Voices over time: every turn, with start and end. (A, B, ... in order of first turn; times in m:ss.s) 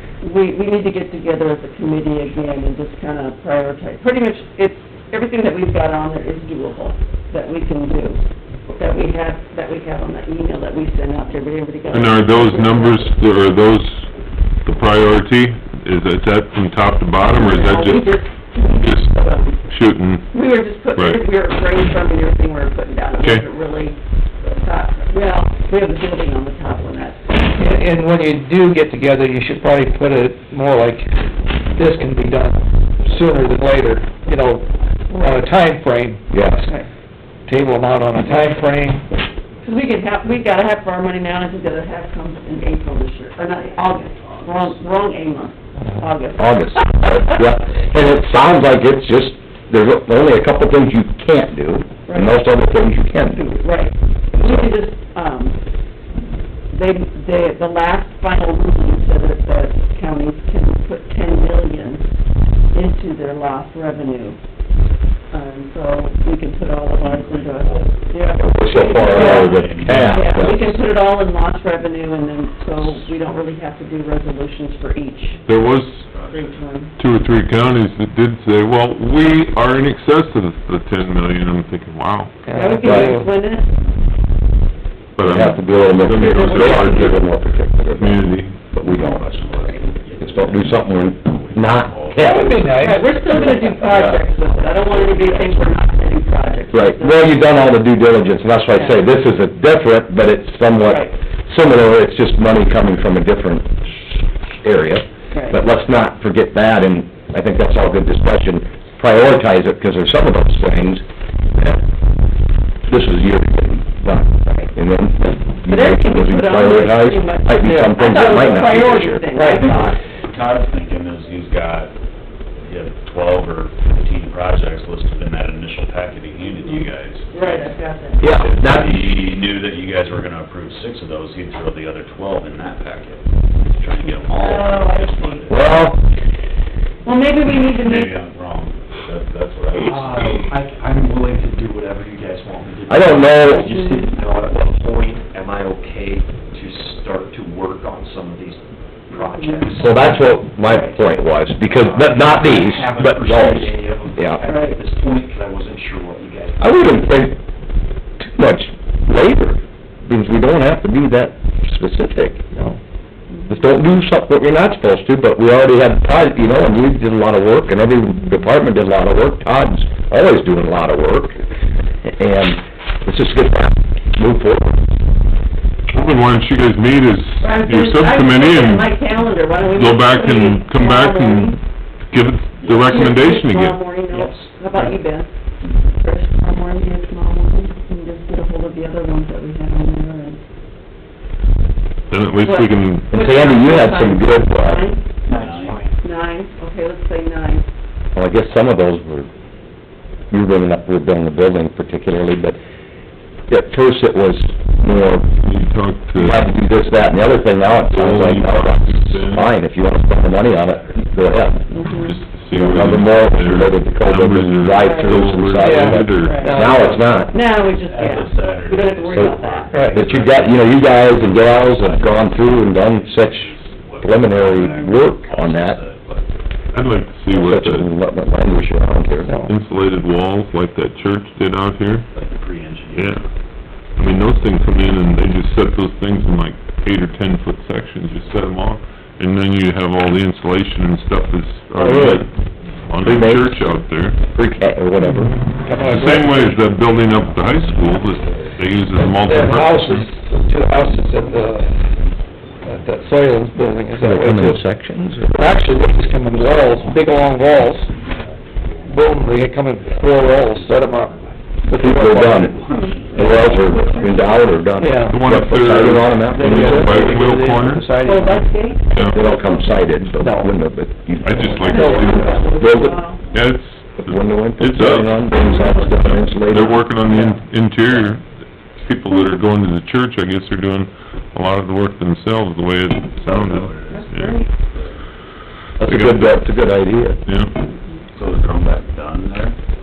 0:00.2-0:08.2 A
0:08.8-0:13.1 A
0:11.9-0:14.1 B
0:14.6-0:20.2 B
0:17.3-0:19.6 A
0:20.3-0:24.0 A
0:21.0-0:21.2 B
0:23.2-0:23.4 B
0:24.5-0:27.3 A
0:27.6-0:36.4 C
0:36.3-0:36.7 D
0:37.5-0:39.1 C
0:39.6-0:47.0 A
0:45.8-0:46.1 C
0:46.4-0:53.5 D
0:52.1-0:52.4 A
0:53.3-0:55.6 A
0:54.3-0:54.7 D
0:56.7-1:02.1 A
1:02.7-1:04.4 A
1:05.3-1:15.4 A
1:07.0-1:10.7 E
1:08.4-1:10.7 D
1:09.9-1:10.1 B
1:15.5-1:16.1 B
1:16.1-1:16.6 E
1:16.3-1:16.9 A
1:17.0-1:22.4 B
1:22.5-1:23.3 C
1:22.5-1:23.7 A
1:22.8-1:23.1 D
1:25.2-1:27.3 B
1:25.2-1:29.3 D
1:25.8-1:27.2 A
1:27.9-1:28.6 B
1:28.9-1:33.5 E
1:28.9-1:29.2 A
1:30.2-1:32.7 D
1:32.2-1:33.1 C
1:32.3-1:37.7 A
1:33.3-1:34.2 D
1:34.7-1:35.6 E
1:36.7-1:43.8 D
1:40.8-1:41.1 A
1:44.6-1:51.0 D
1:45.3-1:45.6 A
1:52.9-1:59.3 D
1:55.7-2:00.0 A
1:59.4-1:59.7 C
1:59.5-2:01.9 E
2:02.6-2:15.9 E
2:06.6-2:08.4 A
2:08.2-2:09.1 D
2:14.3-2:15.9 A
2:15.5-2:16.0 D
2:17.0-2:18.2 A
2:17.6-2:20.5 E
2:19.8-2:30.4 F
2:22.9-2:23.7 D
2:23.6-2:24.1 A
2:29.2-2:29.7 A
2:29.8-2:34.4 D
2:30.6-2:31.0 A
2:31.7-2:37.2 F
2:34.5-2:34.8 A
2:36.6-2:37.4 D
2:38.2-2:42.4 D
2:42.5-2:42.8 C
2:43.3-2:43.6 A
2:43.5-2:51.4 D
2:52.0-2:54.8 D
2:55.9-2:59.0 B
2:57.4-3:01.6 A
2:59.6-3:01.6 B
3:02.1-3:03.8 B
3:02.6-3:02.9 E
3:02.6-3:03.0 F
3:02.8-3:05.3 A
3:04.1-3:05.0 F
3:06.0-3:10.4 A
3:12.1-3:13.2 B
3:12.4-3:15.1 A
3:13.1-3:14.9 D
3:15.3-3:16.0 F
3:15.3-3:15.8 E
3:16.0-3:17.7 A
3:18.2-3:19.3 D
3:20.3-3:22.6 D
3:23.5-3:25.3 D
3:25.4-3:26.5 B
3:26.2-3:31.6 D
3:27.8-3:29.5 B
3:30.1-3:31.4 E
3:31.7-3:32.2 A
3:32.0-3:36.5 B
3:32.5-3:37.4 D
3:34.8-3:35.2 A
3:35.6-3:37.2 C
3:36.1-3:36.7 A
3:37.2-3:40.0 A
3:37.7-3:46.3 E
3:39.7-3:40.1 C
3:39.9-3:45.8 D
3:44.7-3:45.0 A
3:46.7-3:47.9 B
3:47.3-3:49.3 D
3:49.2-3:49.5 C
3:49.5-3:52.1 B
3:52.1-3:53.2 E
3:52.9-3:53.2 B
3:54.0-4:04.2 B
4:01.8-4:02.2 D
4:03.0-4:03.6 D
4:04.2-4:05.4 D
4:05.5-4:06.4 C
4:05.8-4:10.1 B
4:06.3-4:09.8 E
4:09.2-4:11.9 C
4:10.4-4:13.3 E
4:12.6-4:14.6 C
4:14.0-4:15.5 D
4:15.3-4:17.9 C
4:15.8-4:17.6 E
4:18.8-4:22.5 C
4:21.8-4:22.6 D
4:22.5-4:24.2 E
4:22.5-4:24.6 A
4:23.2-4:23.4 C
4:23.2-4:27.1 D
4:24.8-4:25.3 C
4:25.0-4:27.9 B
4:26.3-4:28.5 C
4:28.0-4:29.8 A
4:28.9-4:29.2 B
4:29.1-4:33.0 D
4:30.1-4:30.6 C
4:31.2-4:32.7 B
4:31.4-4:32.2 C
4:31.6-4:33.2 A
4:33.3-4:35.2 B
4:34.0-4:36.9 D
4:35.2-4:36.2 A
4:36.0-4:38.2 B
4:38.8-4:44.5 B
4:43.2-4:44.1 E
4:43.9-4:44.5 A
4:44.6-4:45.0 E
4:45.8-4:47.2 D
4:45.8-4:46.4 B
4:47.3-4:47.5 B
4:47.7-4:48.0 A
4:48.1-4:49.6 E